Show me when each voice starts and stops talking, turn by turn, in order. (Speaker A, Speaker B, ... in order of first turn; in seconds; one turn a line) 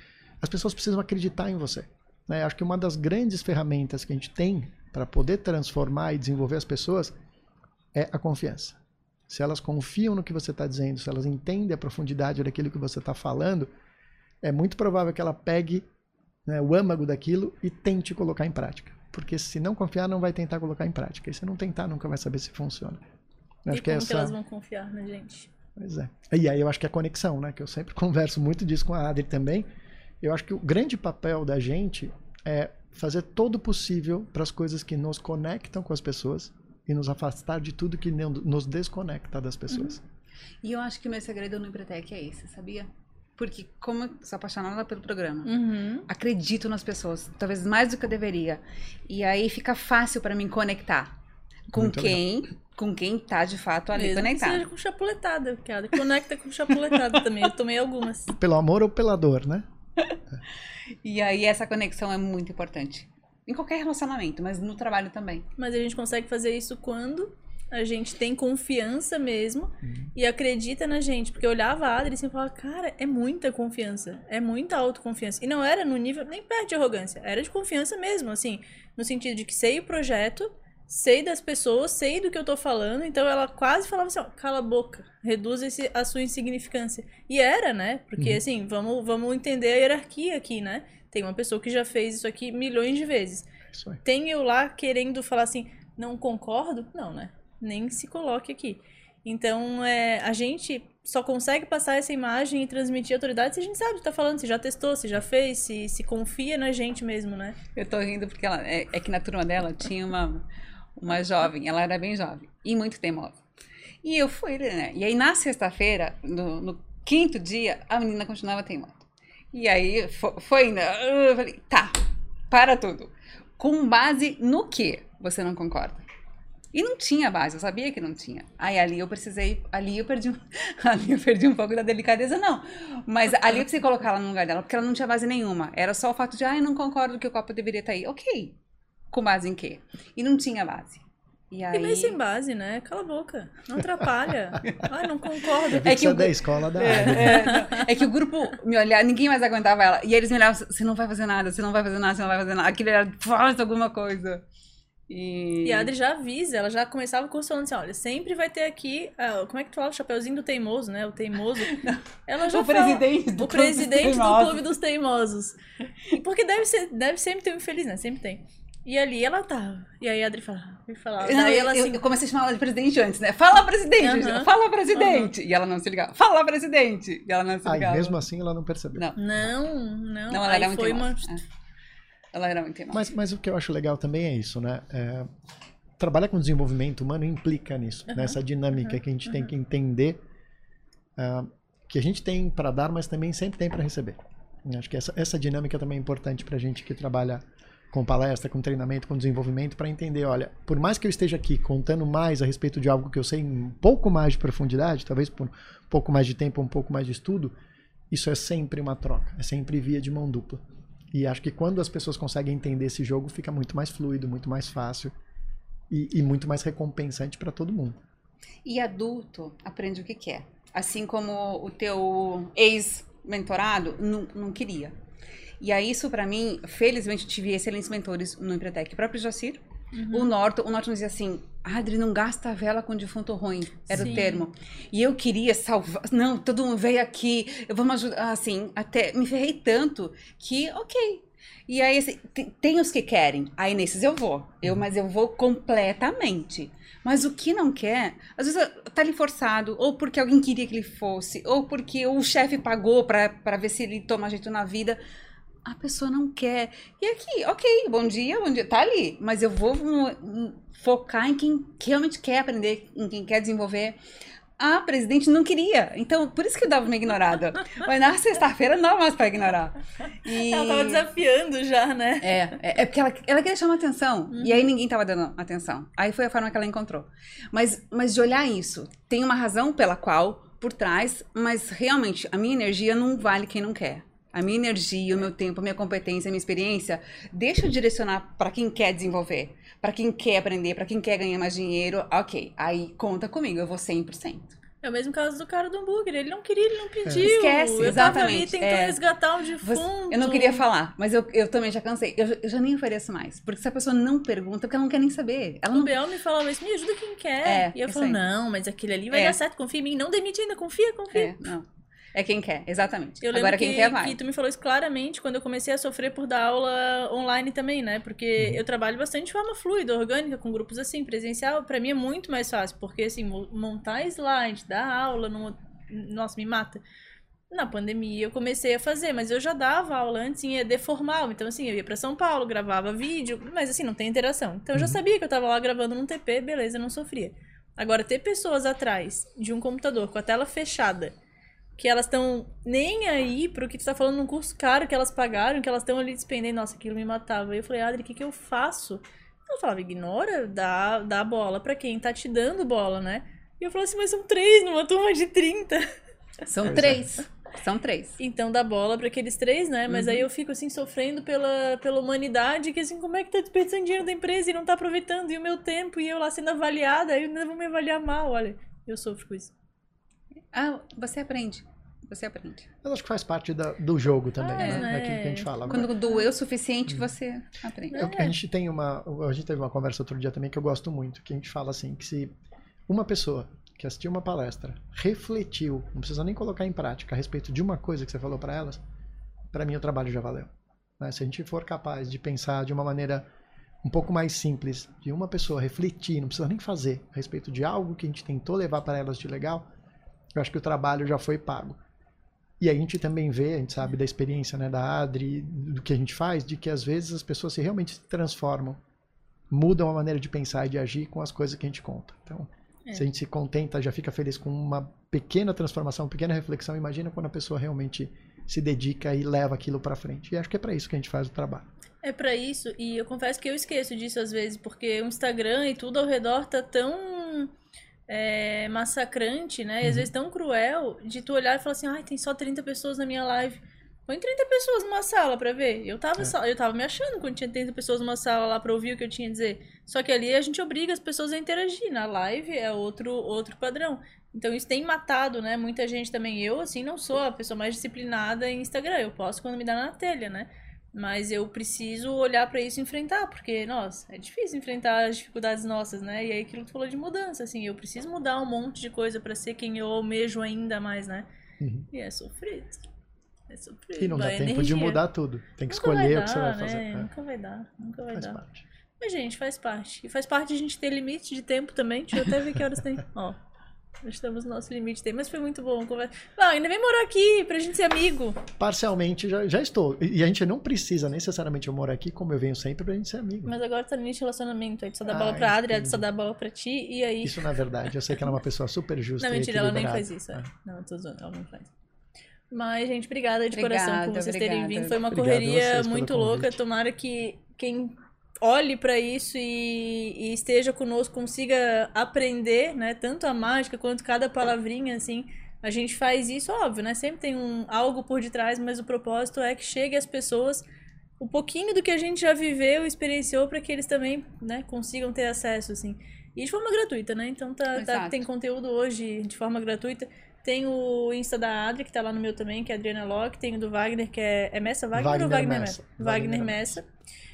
Speaker A: 0.4-7.2
Speaker A: 7.9-13.7
Speaker A: 14.4-15.8
Speaker A: 16.4-23.0
Speaker A: 23.6-24.3
Speaker B: 23.7-25.5
Speaker A: 25.8-29.7
Speaker A: 30.2-40.0
Speaker C: 40.6-51.1
Speaker B: 45.5-46.0
Speaker C: 51.7-54.7
Speaker A: 51.7-52.2
Speaker B: 53.9-58.3
Speaker A: 58.4-59.6
Speaker C: 61.0-65.5
Speaker B: 65.6-93.5
Speaker A: 93.7-94.0
Speaker B: 94.0-107.6
Speaker C: 107.7-110.4
Speaker C: 111.0-113.4
Speaker C: 114.0-122.0
Speaker C: 122.5-126.0
Speaker C: 126.7-138.5
Speaker C: 139.1-142.2
Speaker B: 141.7-146.2
Speaker A: 145.7-147.5
Speaker C: 145.8-154.4
Speaker B: 146.8-147.9
Speaker C: 155.1-155.9
Speaker B: 155.6-161.7
Speaker C: 161.7-164.7
Speaker B: 162.3-172.0
Speaker C: 171.2-178.2
Speaker B: 174.0-175.3
Speaker A: 177.6-179.1
Speaker B: 179.2-181.4
Speaker C: 180.3-181.4
Speaker C: 182.3-183.0
Speaker A: 182.9-185.3
Speaker A: 186.0-190.2
Speaker B: 188.1-189.0
Speaker A: 191.2-207.5
Speaker A: 208.1-215.1
Speaker A: 215.9-218.0
Speaker C: 218.6-224.9
Speaker C: 225.6-255.0
Speaker B: 229.9-230.3
Speaker B: 233.9-234.5
Speaker C: 255.6-264.0
Speaker C: 264.6-271.1
Speaker B: 270.2-272.6
Speaker C: 272.2-294.6
Speaker B: 274.3-274.7
Speaker B: 294.8-300.6
Speaker C: 297.2-299.0
Speaker C: 299.6-306.0
Speaker B: 305.7-311.4
Speaker C: 307.4-308.2
Speaker C: 309.1-309.4
Speaker C: 311.1-314.2
Speaker B: 313.2-326.8
Speaker B: 327.5-341.1
Speaker B: 341.8-355.9
Speaker C: 356.5-358.2
Speaker B: 356.6-356.9
Speaker A: 356.7-357.0
Speaker B: 358.2-369.5
Speaker C: 359.9-360.2
Speaker C: 370.5-372.7
Speaker A: 372.8-375.9
Speaker B: 374.4-376.3
Speaker C: 374.6-374.9
Speaker C: 375.7-378.1
Speaker B: 377.9-378.3
Speaker A: 377.9-382.3
Speaker A: 382.9-388.8
Speaker A: 389.5-393.2
Speaker A: 393.8-399.6
Speaker A: 400.3-401.8
Speaker A: 402.6-408.8
Speaker A: 409.5-421.7
Speaker B: 422.0-427.5
Speaker B: 428.1-461.2
Speaker A: 429.8-430.1
Speaker A: 461.6-461.9
Speaker B: 461.9-462.8
Speaker B: 463.5-465.0
Speaker A: 464.0-467.1
Speaker B: 465.7-468.4
Speaker A: 468.1-468.6
Speaker B: 469.0-473.4
Speaker B: 474.0-478.4
Speaker A: 478.6-483.5
Speaker B: 483.4-487.6
Speaker A: 485.1-486.1
Speaker A: 487.2-490.4
Speaker B: 489.2-491.7
Speaker B: 492.5-510.6
Speaker C: 493.5-495.0
Speaker A: 495.1-496.6
Speaker B: 511.2-526.9
Speaker C: 517.7-518.2
Speaker A: 524.9-526.8